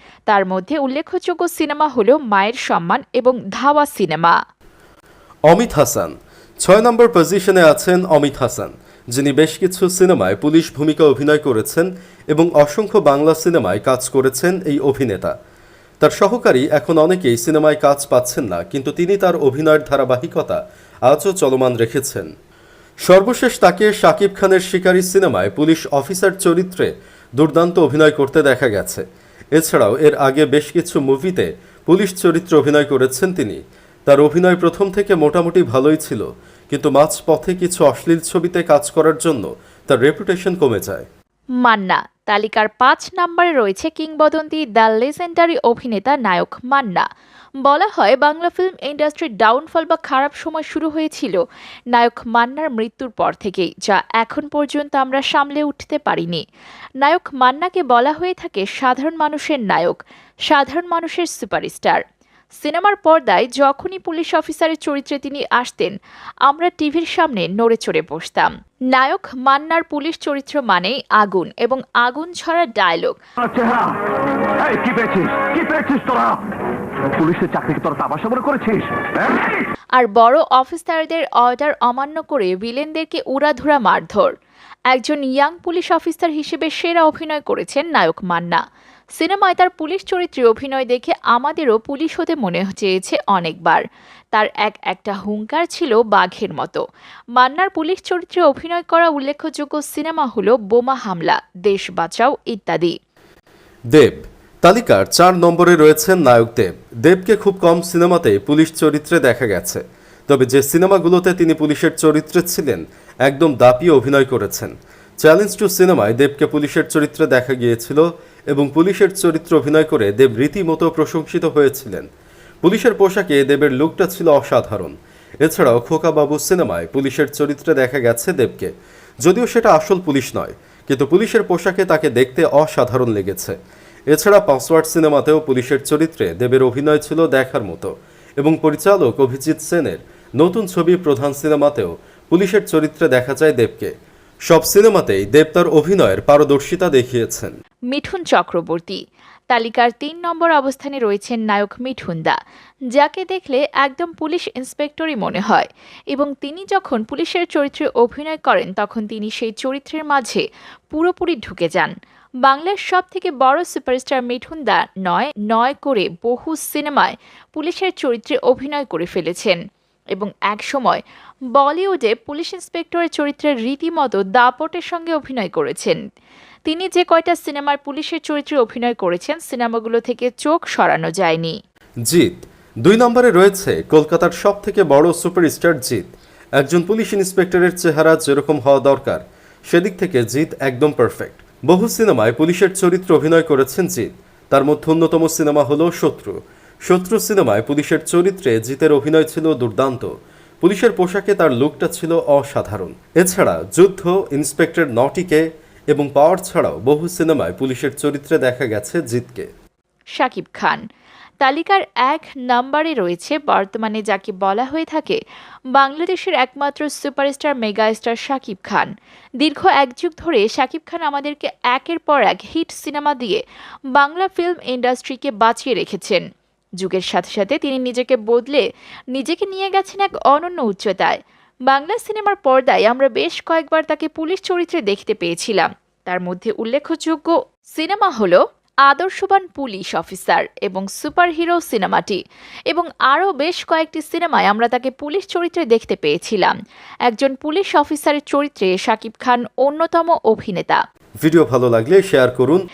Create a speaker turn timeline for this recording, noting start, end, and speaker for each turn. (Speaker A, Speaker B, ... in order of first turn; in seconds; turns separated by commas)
Speaker A: 0.3-4.4, Speaker B: 5.5-15.4, Speaker B: 16.0-22.3, Speaker B: 23.0-41.1, Speaker A: 41.6-47.0, Speaker A: 47.6-51.4, Speaker A: 51.9-56.4, Speaker A: 57.0-62.0, Speaker A: 62.6-66.0, Speaker A: 66.5-73.2, Speaker C: 73.4-74.0, Speaker C: 74.5-76.5, Speaker C: 77.0-79.6, Speaker A: 80.0-84.3, Speaker A: 84.9-88.6, Speaker A: 89.2-96.8, Speaker A: 97.4-102.9, Speaker B: 103.9-122.1, Speaker B: 122.6-128.7, Speaker B: 129.2-133.6, Speaker B: 134.1-143.9, Speaker B: 144.5-147.6, Speaker A: 147.9-149.0, Speaker A: 149.5-152.4, Speaker A: 152.9-169.6, Speaker A: 170.1-171.0, Speaker A: 171.6-176.0, Speaker A: 176.7-181.6, Speaker B: 182.1-200.1, Speaker B: 200.6-209.5, Speaker A: 210.2-210.8, Speaker A: 211.4-215.2, Speaker A: 215.7-218.9, Speaker A: 219.4-226.2, Speaker A: 226.8-246.6, Speaker A: 247.1-250.8, Speaker B: 251.2-252.6